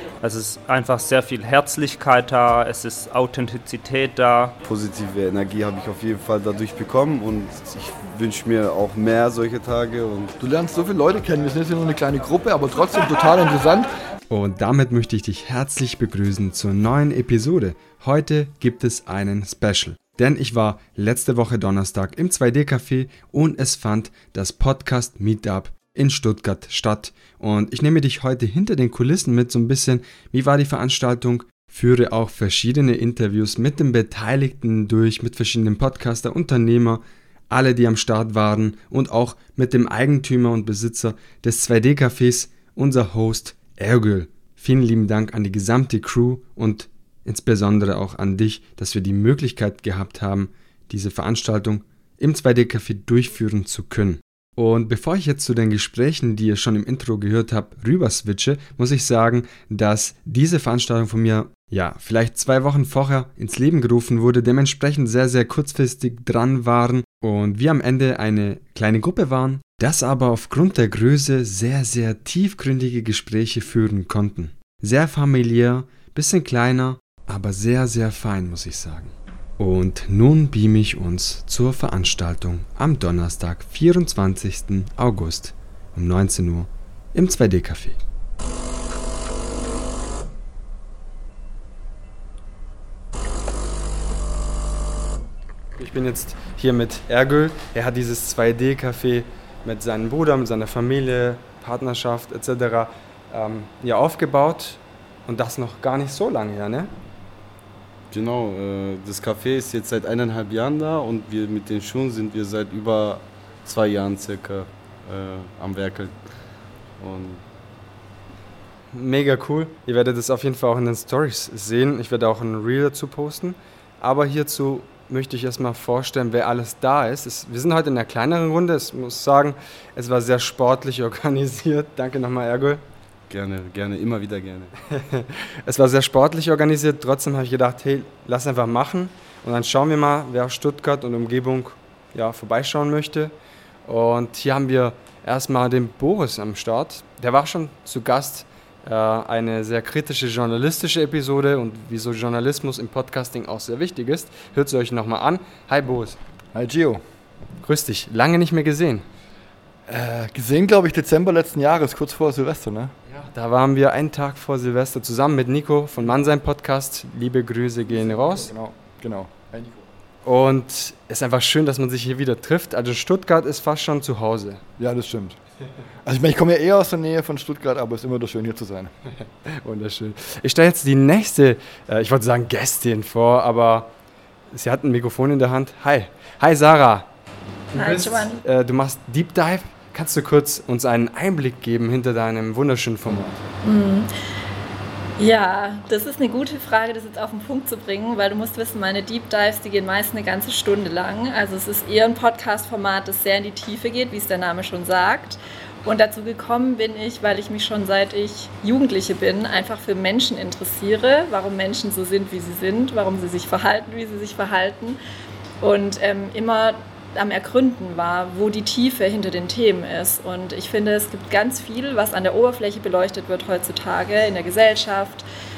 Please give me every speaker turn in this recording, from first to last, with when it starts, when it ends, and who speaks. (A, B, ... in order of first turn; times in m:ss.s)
0:00.2-0:04.6 A
0:04.6-0:10.4 B
0:10.4-0:13.9 C
0:14.3-1:28.0 D
1:35.8-1:46.9 D
1:48.1-1:56.1 B
1:57.0-1:57.4 B
1:58.9-2:12.8 D
2:13.3-2:14.7 B
2:14.9-2:23.3 D
2:23.9-2:36.2 D
2:36.5-2:37.0 C
2:37.6-2:39.1 D
2:39.9-2:43.0 C
2:43.3-2:48.5 D
2:48.3-2:49.9 C
2:50.2-2:54.6 D
2:54.8-2:55.4 C
2:56.0-2:58.9 C
2:59.5-3:03.9 D
3:04.5-3:07.1 D
3:07.7-3:13.3 D
3:07.7-3:08.4 E
3:13.6-3:14.1 E
3:15.2-3:35.0 E
3:35.6-3:45.2 E